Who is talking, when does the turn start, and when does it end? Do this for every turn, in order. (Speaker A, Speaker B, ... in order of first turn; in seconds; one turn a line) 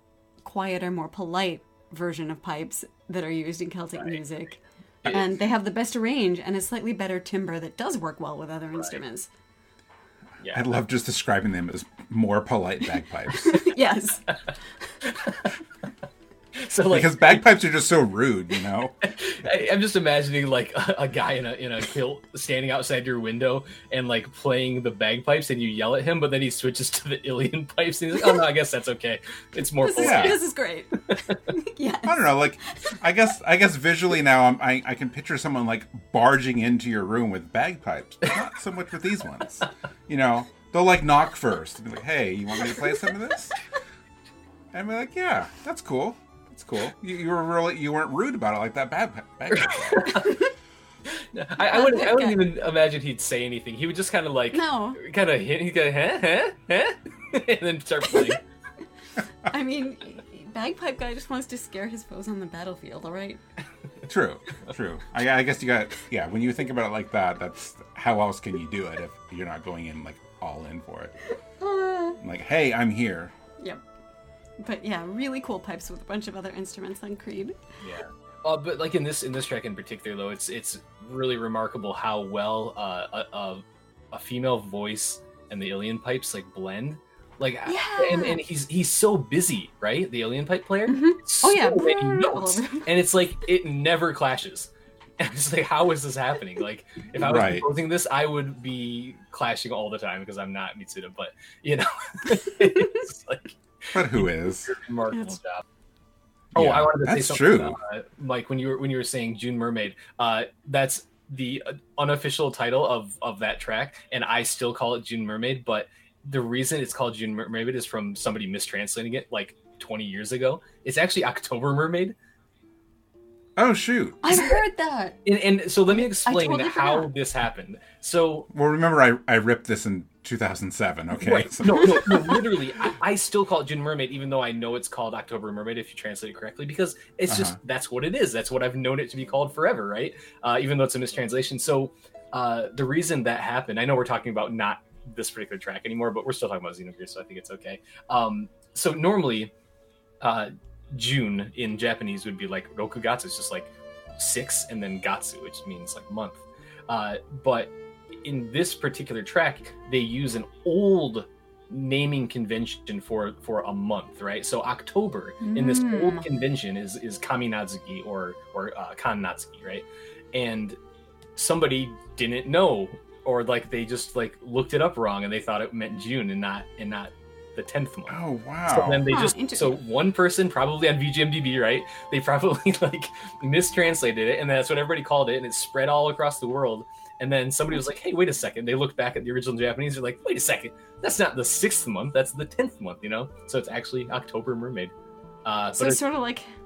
Speaker A: 0.4-9.3
Speaker B: 5.0-5.3
Speaker B: 10.4-10.8
Speaker C: 10.5-13.6
Speaker A: 13.4-14.9
Speaker B: 15.0-15.5
Speaker B: 16.5-17.5
Speaker C: 16.9-19.0
Speaker B: 19.0-30.4
Speaker A: 29.8-33.0
Speaker C: 30.0-30.4
Speaker B: 31.1-31.5
Speaker C: 32.0-43.6
Speaker C: 44.7-50.2
Speaker B: 49.5-50.3
Speaker A: 50.2-50.5
Speaker B: 51.0-58.4
Speaker A: 51.7-52.4
Speaker A: 54.5-55.0
Speaker A: 59.4-63.4
Speaker C: 64.1-71.1
Speaker A: 71.6-72.2
Speaker C: 72.2-73.3
Speaker A: 74.6-77.6
Speaker B: 77.8-105.6
Speaker A: 87.7-88.4
Speaker A: 90.9-92.8
Speaker C: 97.2-97.7
Speaker C: 103.9-104.7
Speaker C: 106.5-107.8
Speaker B: 106.5-122.2
Speaker C: 123.5-124.4
Speaker A: 124.2-125.2
Speaker B: 125.2-128.5
Speaker A: 125.9-127.1
Speaker C: 128.5-132.0
Speaker B: 131.2-149.5
Speaker A: 131.9-132.2
Speaker C: 137.3-137.6
Speaker B: 150.2-170.8
Speaker A: 165.4-166.2
Speaker B: 171.3-194.9
Speaker C: 178.1-179.1
Speaker A: 179.1-179.8
Speaker B: 195.4-196.0
Speaker A: 195.8-196.5